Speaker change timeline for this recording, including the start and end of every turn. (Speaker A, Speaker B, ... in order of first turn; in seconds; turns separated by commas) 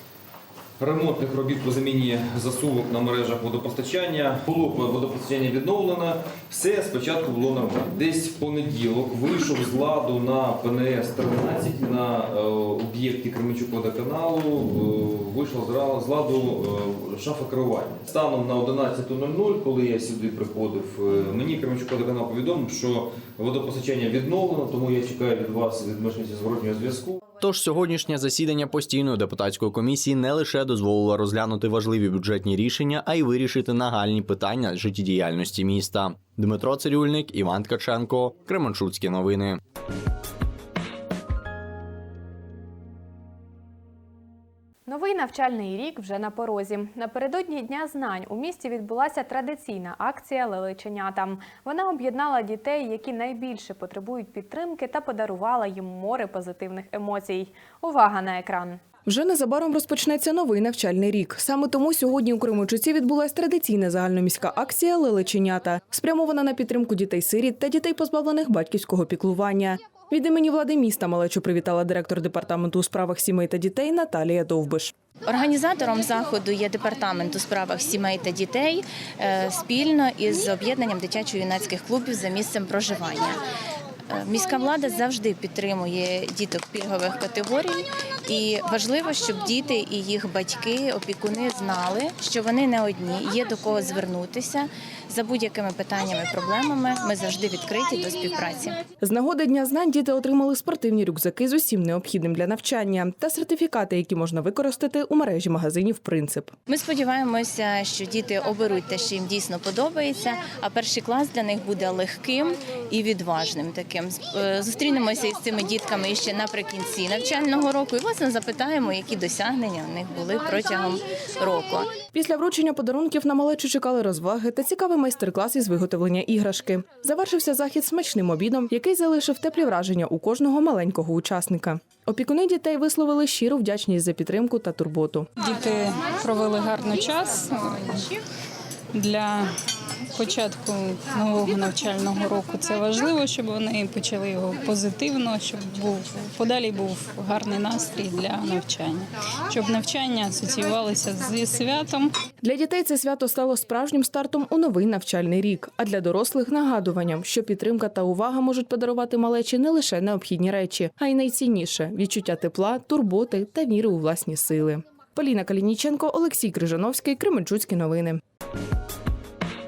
Speaker A: 0.8-27.2, Speaker B: 27.4-39.6, Speaker C: 44.9-58.8, Speaker D: 59.1-74.9, Speaker E: 75.3-83.4, Speaker E: 84.1-98.8, Speaker D: 99.0-106.5, Speaker E: 106.7-121.9, Speaker D: 122.1-135.3, Speaker F: 135.4-138.0, Speaker F: 138.9-139.5, Speaker F: 140.2-152.1, Speaker D: 152.4-168.2